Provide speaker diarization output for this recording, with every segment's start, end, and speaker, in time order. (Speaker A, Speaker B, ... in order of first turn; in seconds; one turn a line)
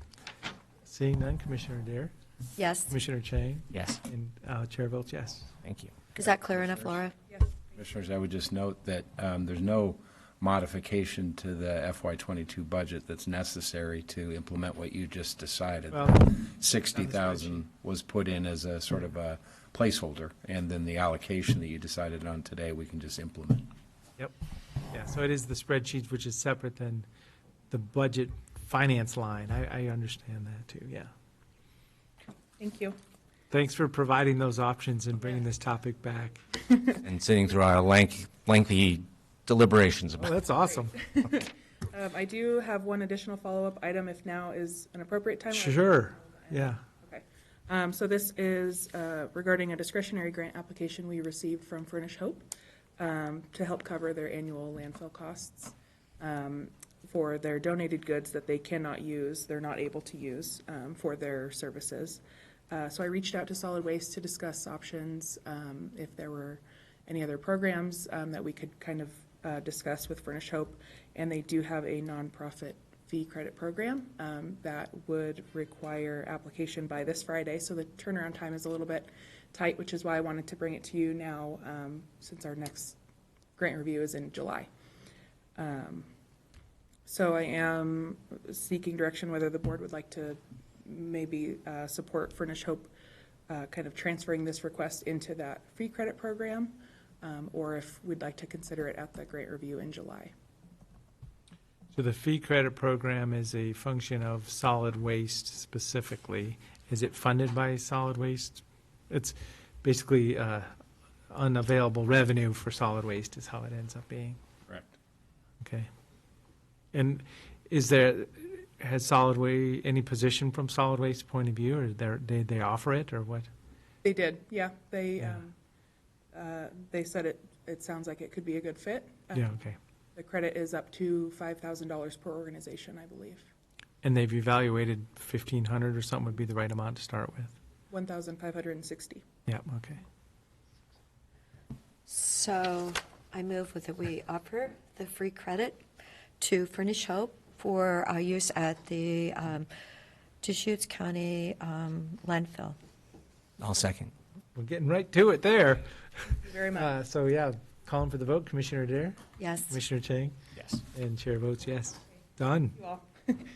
Speaker A: 0.8-2.1
Speaker B: 2.6-2.9
Speaker A: 2.9-5.5
Speaker C: 3.7-4.0
Speaker C: 5.6-6.0
Speaker B: 6.2-7.2
Speaker D: 7.8-23.7
Speaker A: 15.9-16.4
Speaker A: 16.9-17.6
Speaker A: 24.9-27.1
Speaker A: 27.7-31.1
Speaker E: 32.6-33.0
Speaker A: 33.5-36.4
Speaker E: 36.7-37.0
Speaker C: 37.0-40.3
Speaker A: 40.2-41.0
Speaker E: 40.6-83.0
Speaker A: 45.5-46.8
Speaker E: 83.6-84.7
Speaker E: 85.6-86.1
Speaker E: 87.1-92.9
Speaker E: 93.5-100.3
Speaker A: 101.9-110.7
Speaker A: 111.3-114.4
Speaker A: 115.6-115.9
Speaker A: 116.9-123.5
Speaker E: 124.0-125.5
Speaker E: 126.3-129.5
Speaker A: 129.3-129.8
Speaker E: 130.2-133.5
Speaker A: 134.0-137.6
Speaker E: 137.9-139.2
Speaker A: 139.5-140.0
Speaker B: 142.1-145.8
Speaker B: 146.4-149.7
Speaker B: 150.4-152.8
Speaker C: 153.6-154.1
Speaker A: 154.6-155.8
Speaker E: 156.4-156.9
Speaker A: 156.7-159.2
Speaker B: 159.4-159.8
Speaker A: 159.7-160.3
Speaker C: 160.6-160.8
Speaker A: 160.9-162.8
Speaker E: 162.8-163.4